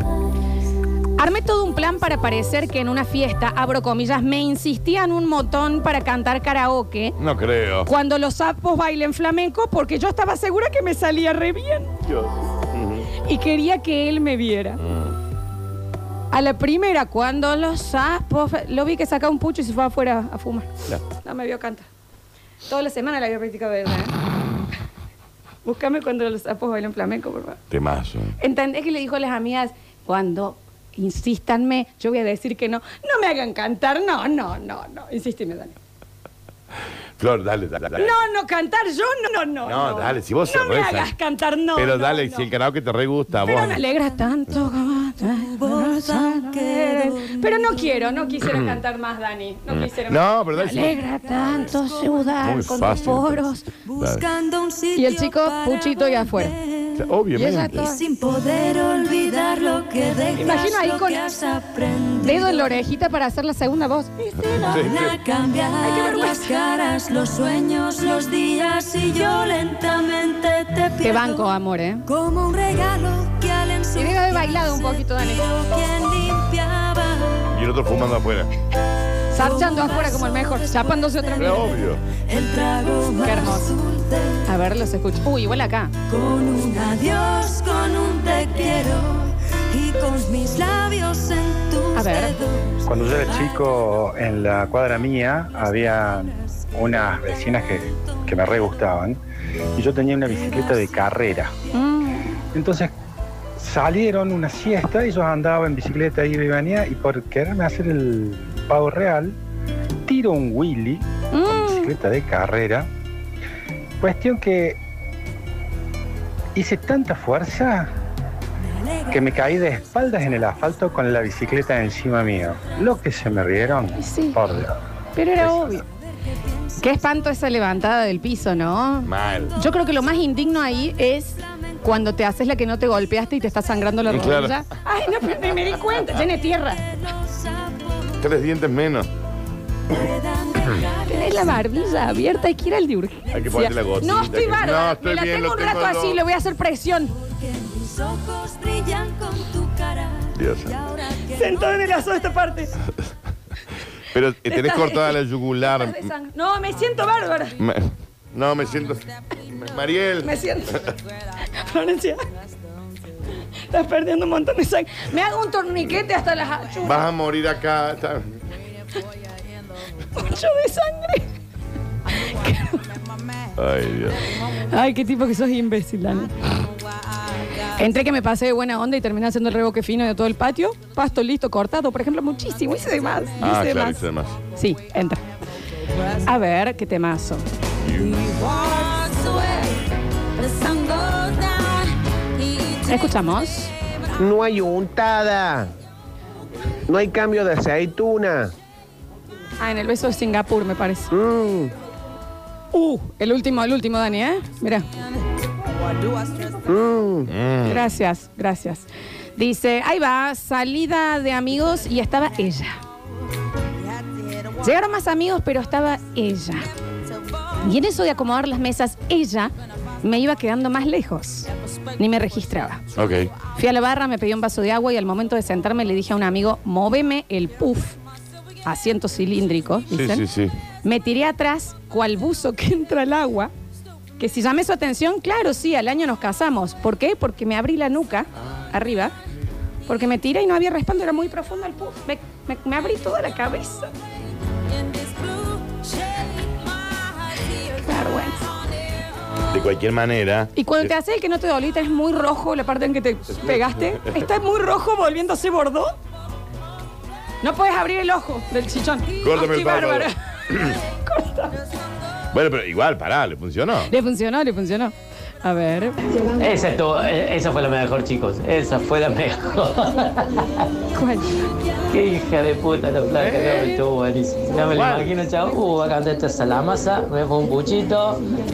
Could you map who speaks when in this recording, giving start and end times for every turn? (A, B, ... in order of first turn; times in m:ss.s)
0:01.2-0:07.2 A
0:07.2-0:07.9 B
0:07.9-0:11.9 A
0:12.0-0:13.1 B
0:13.2-0:14.8 A
0:14.8-0:15.2 B
0:16.3-0:21.9 A
0:22.7-0:24.2 A
0:25.6-0:27.6 A
0:27.7-0:28.4 B
0:28.4-0:35.8 A
0:37.2-0:38.2 B
0:38.0-0:42.5 A
0:39.6-0:41.1 B
0:41.8-0:43.8 B
0:43.4-0:53.7 A
0:45.6-0:48.1 C
0:48.4-0:48.8 B
0:49.7-0:51.7 B
0:51.8-0:52.2 C
0:52.4-0:53.5 B
0:53.9-0:57.0 C
0:55.0-0:56.5 A
0:57.0-0:57.9 B
0:57.4-0:58.0 A
0:57.7-1:02.8 C
1:00.4-1:01.2 A
1:02.2-1:04.8 A
1:04.5-1:05.2 B
1:04.6-1:11.5 C
1:05.8-1:06.5 A
1:11.0-1:12.0 A
1:12.1-1:17.5 C
1:14.0-1:15.4 A
1:17.5-1:18.5 B
1:19.3-1:21.7 A
1:19.4-1:24.4 C
1:21.4-1:22.0 B
1:23.2-1:23.7 A
1:24.5-1:25.9 A
1:26.1-1:33.2 C
1:32.0-1:32.3 A
1:32.9-1:39.2 D
1:39.8-1:41.5 D
1:41.7-1:42.4 A
1:42.5-1:42.9 D
1:43.6-1:49.4 D
1:50.1-1:52.9 D
1:51.3-1:51.9 A
1:54.0-1:54.8 D
1:56.6-1:57.9 D
1:59.1-2:04.8 D
2:04.0-2:04.4 A
2:05.2-2:05.8 A
2:06.8-2:16.8 A
2:09.0-2:09.5 B
2:14.1-2:14.6 B
2:16.9-2:18.2 C
2:18.2-2:19.1 B
2:19.9-2:21.8 C
2:21.1-2:27.1 A
2:23.3-2:26.2 B
2:27.2-2:31.7 C
2:30.4-2:30.7 B
2:31.4-2:32.7 A
2:34.1-2:36.1 B
2:34.5-2:37.6 A
2:37.6-2:40.3 B
2:40.2-2:40.8 A
2:41.5-2:42.2 A
2:43.7-2:47.0 A
2:46.8-2:48.3 B
2:50.2-2:51.3 A
2:52.3-2:52.8 A
2:53.6-2:54.3 B
2:54.7-2:56.3 A
2:57.8-3:04.0 A
3:03.4-3:04.4 B
3:04.6-3:05.2 A
3:06.2-3:07.4 A
3:07.8-3:08.3 B
3:09.0-3:09.6 A
3:10.4-3:11.7 A
3:12.6-3:13.7 A
3:14.2-3:15.7 E
3:16.9-3:18.5 E
3:19.6-3:21.1 A
3:21.1-3:21.7 E
3:22.7-3:24.9 A
3:26.7-3:27.3 E
3:27.3-3:27.9 B
3:27.7-3:32.8 A
3:34.6-3:36.7 A
3:37.6-3:42.8 A
3:43.0-3:43.3 B
3:43.5-3:48.0 A
3:48.6-3:50.3 A
3:49.9-3:50.6 B
3:50.8-3:53.5 A
3:54.2-3:59.1 A
3:59.9-4:03.9 A
4:07.7-4:08.5 A
4:09.5-4:10.9 B
4:10.6-4:15.9 A
4:13.3-4:14.2 B
4:17.4-4:20.1 A
4:19.2-4:20.7 B
4:21.0-4:21.6 A
4:22.3-4:23.9 B
4:23.9-4:26.2 A
4:26.4-4:30.6 F
4:30.9-4:31.4 A
4:31.9-4:38.2 F
4:33.2-4:33.7 B
4:34.7-4:35.1 B